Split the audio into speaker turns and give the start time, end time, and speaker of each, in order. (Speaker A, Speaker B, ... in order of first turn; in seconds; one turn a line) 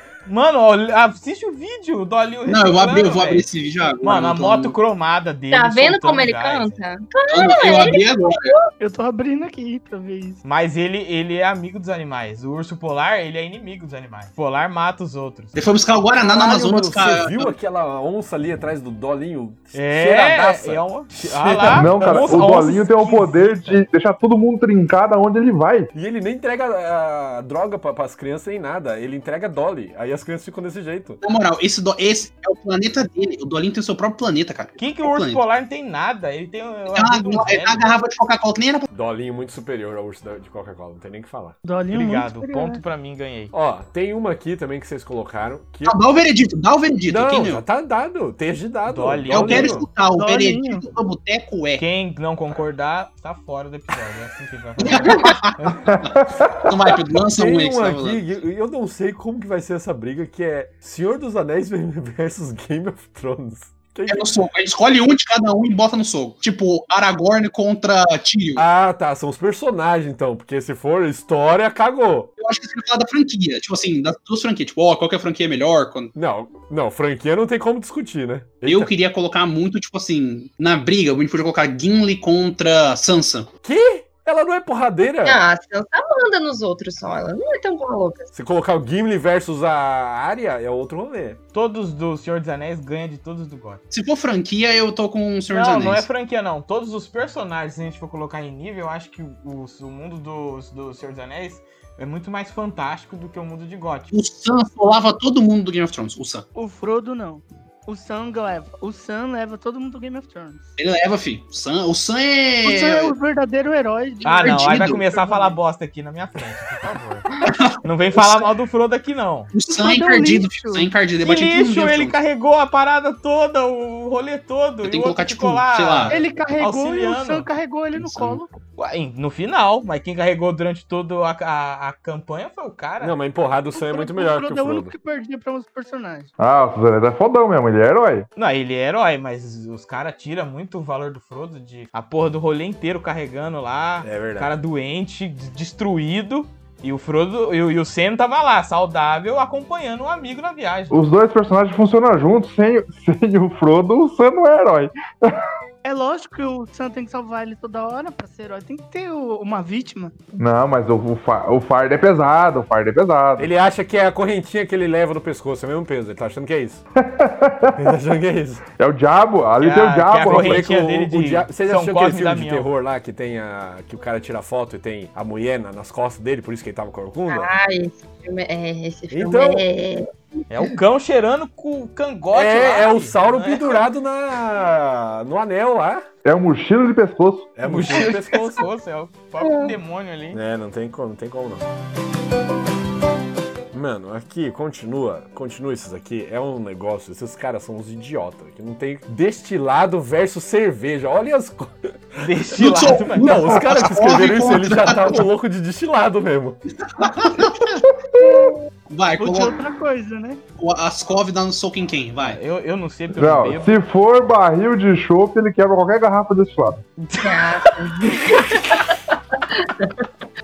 Speaker A: 0.3-3.5
Speaker B: 2.5-4.8
Speaker A: 4.0-6.8
Speaker C: 5.5-8.7
Speaker B: 7.3-8.5
Speaker D: 8.8-10.4
Speaker A: 10.4-15.6
Speaker B: 15.6-17.6
Speaker E: 16.2-22.5
Speaker A: 19.7-23.8
Speaker F: 21.7-25.9
Speaker E: 25.9-31.2
Speaker B: 31.2-35.4
Speaker A: 34.8-37.9
Speaker B: 36.9-38.9
Speaker E: 38.9-41.6
Speaker D: 41.6-42.8
Speaker A: 41.9-43.5
Speaker E: 43.5-46.0
Speaker B: 45.9-47.6
Speaker E: 47.1-49.9
Speaker A: 48.9-49.8
Speaker B: 49.3-51.8
Speaker D: 50.1-50.9
Speaker A: 51.8-55.9
Speaker B: 54.8-58.2
Speaker F: 55.9-56.7
Speaker E: 57.4-64.3
Speaker B: 64.1-68.6
Speaker E: 68.6-72.3
Speaker B: 72.4-76.1
Speaker E: 76.2-78.9
Speaker B: 78.7-83.5
Speaker E: 83.6-85.4
Speaker C: 85.2-88.3
Speaker E: 88.3-91.4
Speaker A: 91.5-93.8
Speaker B: 93.9-96.0
Speaker A: 95.5-104.1
Speaker B: 104.1-106.5
Speaker D: 106.5-110.7
Speaker B: 110.8-113.1
Speaker D: 112.6-115.6
Speaker A: 114.2-117.2
Speaker B: 114.4-115.0
Speaker B: 117.4-118.5
Speaker A: 117.8-119.5
Speaker B: 119.5-122.2
Speaker D: 119.7-120.9
Speaker A: 121.2-127.5
Speaker B: 124.8-126.2
Speaker D: 126.1-128.5
Speaker A: 128.8-133.2
Speaker E: 133.0-134.9
Speaker D: 133.7-136.3
Speaker F: 136.4-138.3
Speaker A: 138.4-150.9
Speaker E: 144.0-144.5
Speaker F: 150.9-155.4
Speaker D: 155.8-160.1
Speaker F: 160.3-163.5
Speaker E: 163.4-166.8
Speaker F: 167.0-167.9
Speaker E: 167.8-168.7
Speaker F: 168.8-170.6
Speaker A: 169.6-172.7
Speaker E: 170.2-177.5
Speaker C: 177.3-180.1
Speaker E: 179.1-179.7
Speaker A: 180.5-183.9
Speaker E: 182.3-186.1
Speaker F: 186.2-187.6
Speaker E: 187.6-188.7
Speaker A: 187.6-190.4
Speaker C: 189.4-189.8
Speaker E: 190.3-191.7
Speaker E: 193.7-202.2
Speaker A: 202.2-203.6
Speaker B: 202.6-205.2
Speaker E: 203.2-206.6
Speaker B: 206.8-207.8
Speaker C: 208.2-208.6
Speaker B: 208.9-209.6
Speaker D: 209.2-210.4
Speaker B: 210.6-212.4
Speaker A: 212.2-213.8
Speaker F: 213.1-216.8
Speaker A: 217.0-217.4
Speaker C: 217.2-218.3
Speaker A: 218.0-218.3
Speaker C: 219.6-219.9